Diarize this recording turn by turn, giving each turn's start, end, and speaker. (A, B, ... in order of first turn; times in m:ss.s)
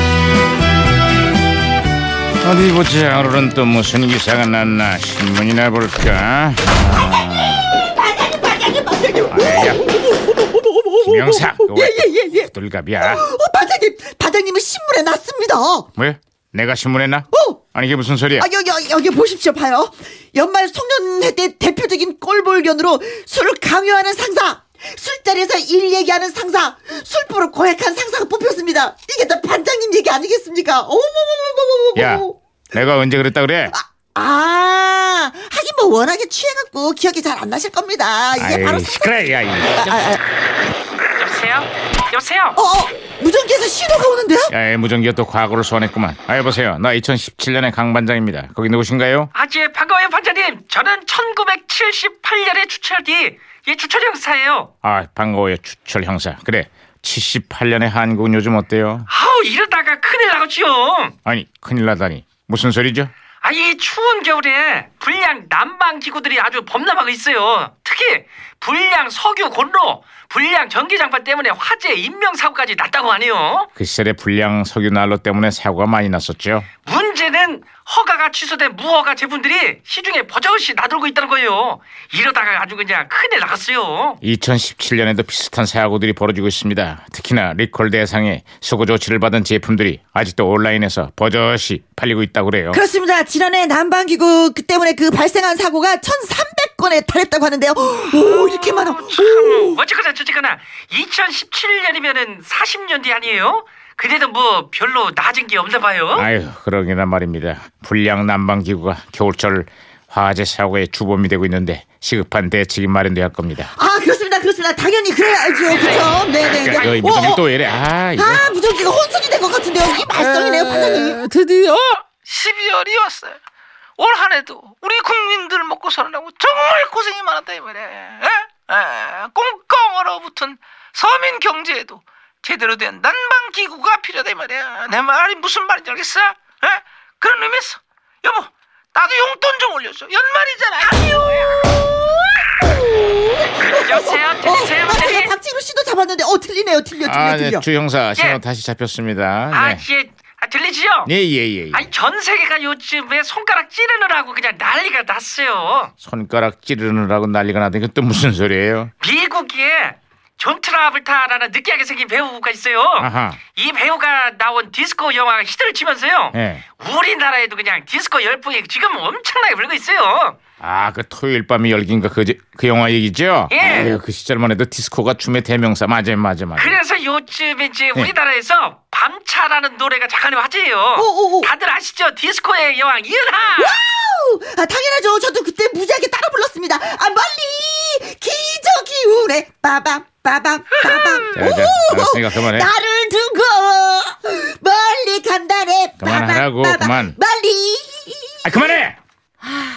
0:02.4-0:07.8 A
0:07.0-0:15.9 B
0:09.3-0:09.9 A
0:11.0-0:13.2 A
0:16.0-0:18.5 A
0:17.3-0:17.6 B
0:18.4-0:32.4 B
0:32.0-0:33.8 A
0:33.7-0:40.2 B
0:38.4-0:40.1 A
0:41.2-0:42.6 C
0:42.6-0:44.5 B
0:44.5-0:49.3 A
0:49.3-0:54.7 C
0:54.8-0:59.1 A
0:59.1-1:01.2 C
1:01.3-1:03.1 A
1:03.4-1:13.7 C
1:13.8-1:16.7 A
1:16.8-1:24.2 C
1:24.2-1:32.8 A
1:32.7-1:39.8 B
1:38.1-1:46.3 C
1:46.2-1:53.7 A
1:53.8-1:57.4 B
1:56.6-1:58.4 A
1:58.2-2:01.3 B
2:01.2-2:03.4 D
2:04.0-2:21.6 D
2:22.7-2:27.6 B
2:23.7-2:25.3 C
2:27.0-2:29.8 A
2:29.5-2:31.1 C
2:31.1-2:31.8 A
2:31.7-2:35.9 C
2:36.0-2:38.9 A
2:39.0-2:50.4 C
2:43.0-2:43.4 A
2:46.3-2:46.6 A
2:50.6-2:56.8 A
2:53.5-2:53.9 C
2:56.6-3:03.8 C
3:01.0-3:01.5 B
3:03.6-3:18.8 B
3:11.3-3:12.7 A
3:16.0-3:17.2 A
3:18.4-3:19.0 A